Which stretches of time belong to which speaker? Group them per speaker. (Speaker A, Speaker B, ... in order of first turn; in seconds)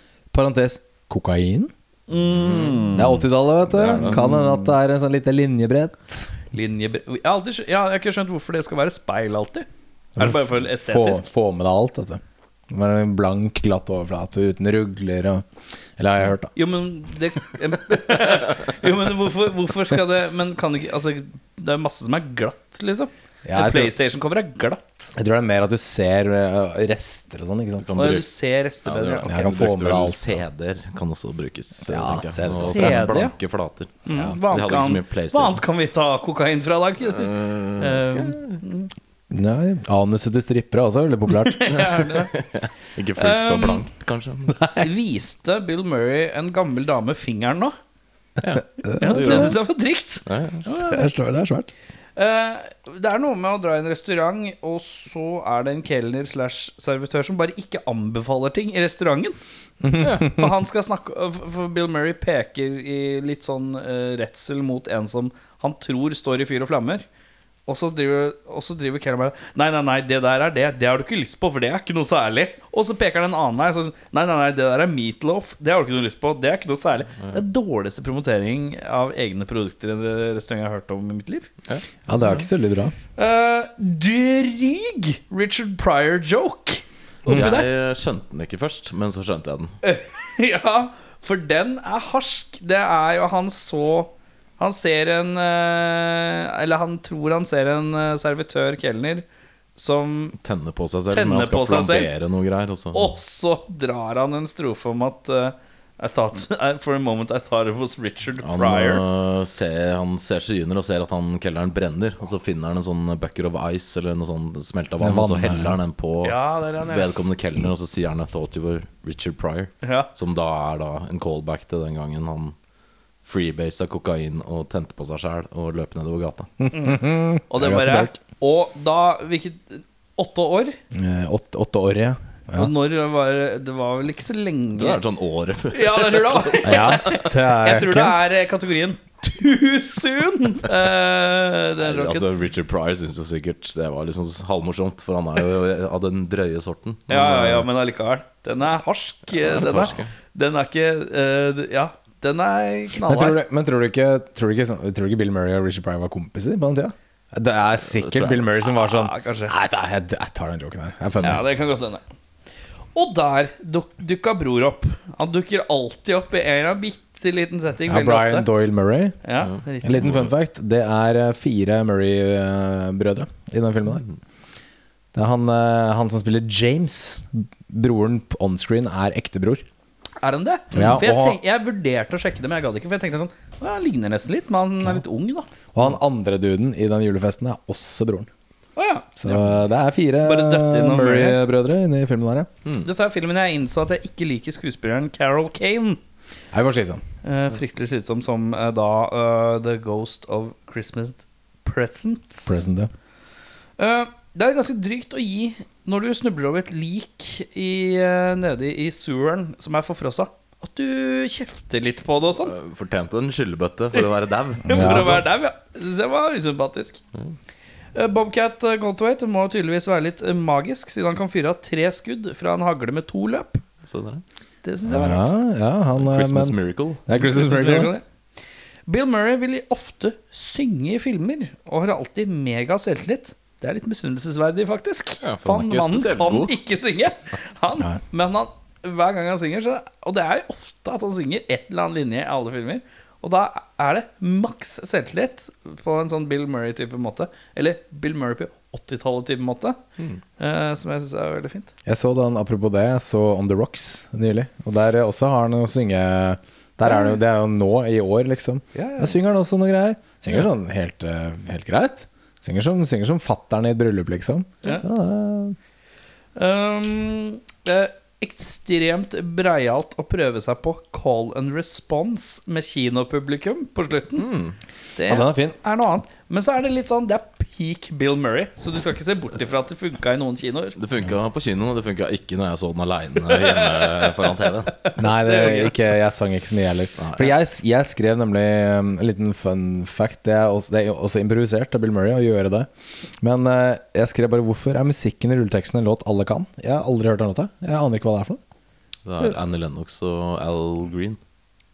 Speaker A: 0.3-1.7, 2.9-6.3, 10.2-15.4, 16.0-16.5, 23.4-23.9, 25.1-28.0, 29.2-30.4, 31.9-33.1, 39.3-41.7, 48.8-49.6, 50.6-51.7, 59.8-60.5, 82.1-82.9, 115.0-115.8, 126.7-128.1, 130.9-132.7, 136.6-138.2, 153.1-161.4, 167.9-169.2, 169.8-174.1, 175.1-179.6, 180.7-181.4, 185.7-188.3, 189.2-192.5, 196.5-197.0, 202.5-202.9, 214.7-215.2, 224.9-227.9, 251.9-265.6, 275.1-275.6, 285.0-292.7, 293.2-298.4
Speaker B: 2.1-3.2, 6.5-9.7, 10.2-11.3, 16.6-25.1, 28.0-29.4, 32.5-33.3, 34.1-38.9, 41.4-42.3, 43.2-43.8, 44.7-47.8, 49.0-50.2, 52.2-59.4, 60.0-67.0, 67.7-81.5, 83.2-87.7, 89.8-99.2, 99.8-100.4, 101.1-102.1, 102.9-109.0, 116.2-117.1, 119.8-120.1, 126.7-130.8, 132.5-135.0, 135.7-142.3, 147.1-153.4, 158.7-159.5, 161.2-162.0, 162.9-168.5, 169.2-170.2, 180.2-185.5, 188.8-189.4, 190.2-191.4, 192.8-196.0, 197.2-202.6, 203.8-212.5, 214.7-217.0, 217.9-223.6, 224.6-225.3, 227.2-228.0, 228.9-249.8, 250.4-251.7, 258.8-259.1, 266.4-274.3, 275.0-280.8, 283.2-285.8
Speaker C: 2.3-4.3, 27.8-28.3, 28.8-35.6, 37.1-38.6, 41.7-44.7, 48.4-49.6, 50.3-50.6, 60.0-60.3, 81.7-82.5, 87.3-89.8, 100.4-103.1, 108.4-122.5, 123.2-126.5, 134.8-137.2, 141.8-147.7, 149.3-150.1, 157.9-158.5, 169.4-170.3, 212.4-215.2, 223.8-224.2, 226.0-227.1, 235.2-236.6, 274.2-274.6, 280.8-284.8, 287.0-287.3, 299.1-301.2